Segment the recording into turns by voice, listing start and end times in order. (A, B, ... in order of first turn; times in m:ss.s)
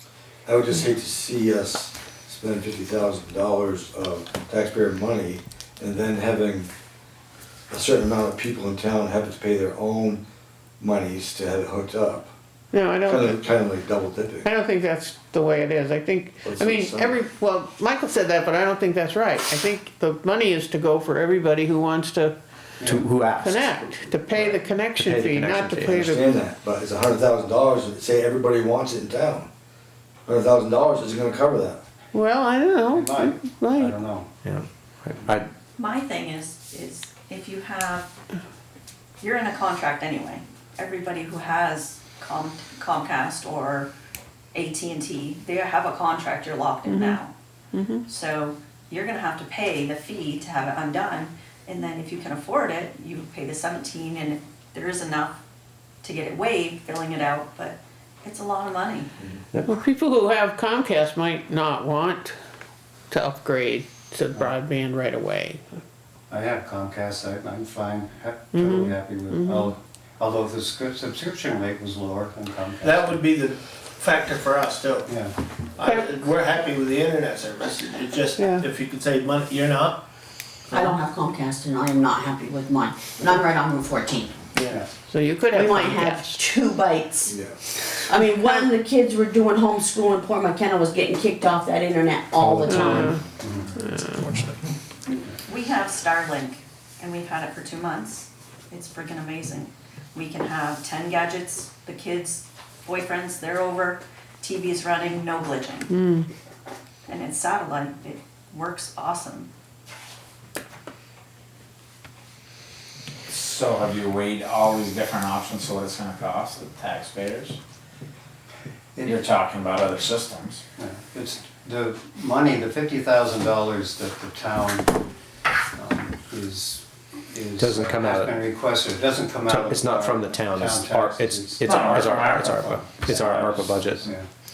0:00.4-0:06.7 A
0:07.7-0:10.2 A
0:10.8-0:12.3 A
0:12.7-0:13.4 B
0:13.0-0:14.5 A
0:14.4-0:22.4 B
0:16.4-0:17.2 A
0:22.8-0:23.0 C
0:22.8-0:26.1 D
0:23.4-0:26.3 B
0:25.9-0:29.5 A
0:30.2-0:31.8 A
0:32.1-0:33.9 B
0:32.9-0:34.3 C
0:34.4-0:35.5 D
0:35.8-0:38.1 E
0:39.2-0:43.9 E
0:44.5-0:47.3 E
0:46.9-0:47.2 B
0:47.7-0:48.0 B
0:48.1-0:55.4 E
0:56.0-0:59.1 E
0:59.7-1:02.3 B
1:03.1-1:05.8 B
1:06.3-1:13.0 C
1:08.5-1:09.7 B
1:12.8-1:15.1 F
1:15.1-1:15.3 C
1:15.8-1:16.5 B
1:15.8-1:20.0 F
1:18.3-1:18.7 B
1:20.7-1:24.4 G
1:25.1-1:26.4 B
1:25.5-1:33.2 G
1:27.3-1:27.6 A
1:32.4-1:33.2 D
1:32.7-1:33.2 B
1:33.4-1:33.7 C
1:33.8-1:34.2 B
1:34.2-1:34.5 F
1:35.4-1:45.9 E
1:45.9-1:46.3 B
1:47.1-1:49.5 E
1:53.3-1:57.6 H
1:59.0-1:59.3 C
1:59.0-2:00.6 H
2:00.8-2:04.9 C
2:05.7-2:14.2 C
2:07.6-2:08.4 D
2:09.5-2:14.1 D
2:11.6-2:12.6 H